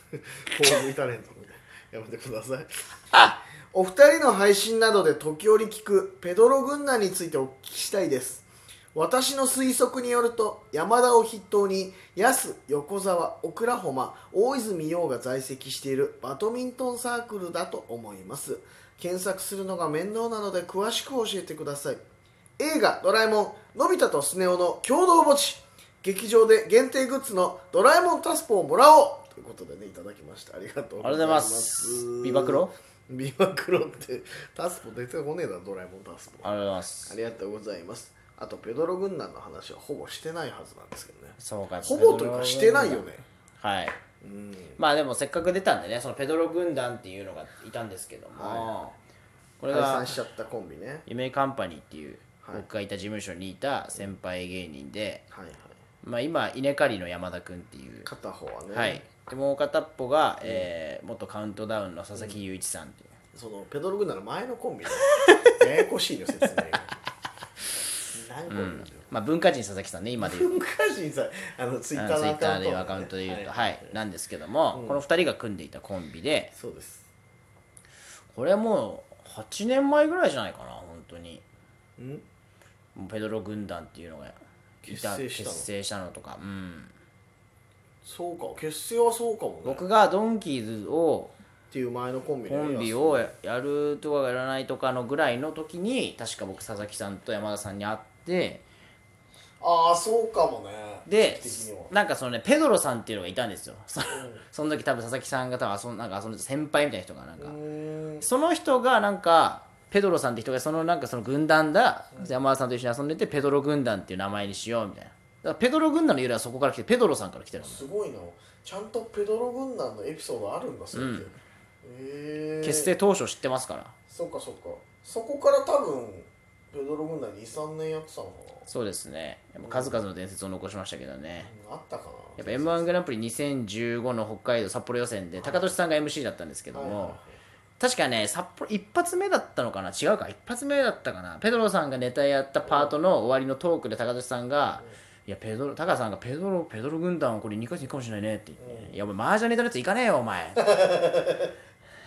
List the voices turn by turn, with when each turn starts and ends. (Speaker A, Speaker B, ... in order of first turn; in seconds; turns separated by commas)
Speaker A: 0.1-2.7, Speaker A: 3.7-22.0, Speaker A: 22.6-36.5, Speaker B: 31.0-32.7, Speaker B: 36.4-37.2, Speaker A: 37.1-43.2, Speaker B: 41.4-43.1, Speaker B: 43.6-44.0, Speaker A: 44.2-44.8, Speaker B: 44.8-49.0, Speaker A: 48.3-48.8, Speaker B: 49.6-50.2, Speaker A: 49.7-51.0, Speaker B: 51.1-55.2, Speaker A: 55.3-55.8, Speaker B: 56.0-58.1, Speaker A: 58.0-59.0, Speaker B: 58.7-63.1, Speaker A: 60.4-60.7, Speaker A: 63.3-67.0, Speaker B: 65.0-65.5, Speaker A: 68.1-69.1, Speaker B: 68.5-70.5, Speaker A: 70.2-74.0, Speaker B: 72.0-76.5, Speaker A: 74.7-75.0, Speaker A: 76.5-77.1, Speaker B: 78.3-81.5, Speaker A: 82.0-82.2, Speaker B: 83.0-86.9, Speaker A: 84.8-85.7, Speaker A: 88.0-89.8, Speaker B: 89.6-91.3, Speaker A: 91.7-93.3, Speaker B: 92.5-98.6, Speaker A: 99.6-101.9, Speaker B: 101.1-107.6, Speaker A: 104.1-104.4, Speaker A: 107.4-108.3, Speaker B: 108.2-117.9, Speaker A: 117.6-122.9, Speaker B: 120.9-121.3, Speaker B: 122.6-123.9, Speaker A: 124.1-128.7, Speaker B: 128.7-131.5, Speaker A: 129.6-130.0, Speaker A: 131.4-133.0, Speaker B: 132.4-137.2, Speaker A: 135.4-135.7, Speaker A: 136.7-137.4, Speaker B: 137.8-150.7, Speaker A: 142.7-143.0, Speaker A: 148.6-149.0, Speaker A: 150.6-151.5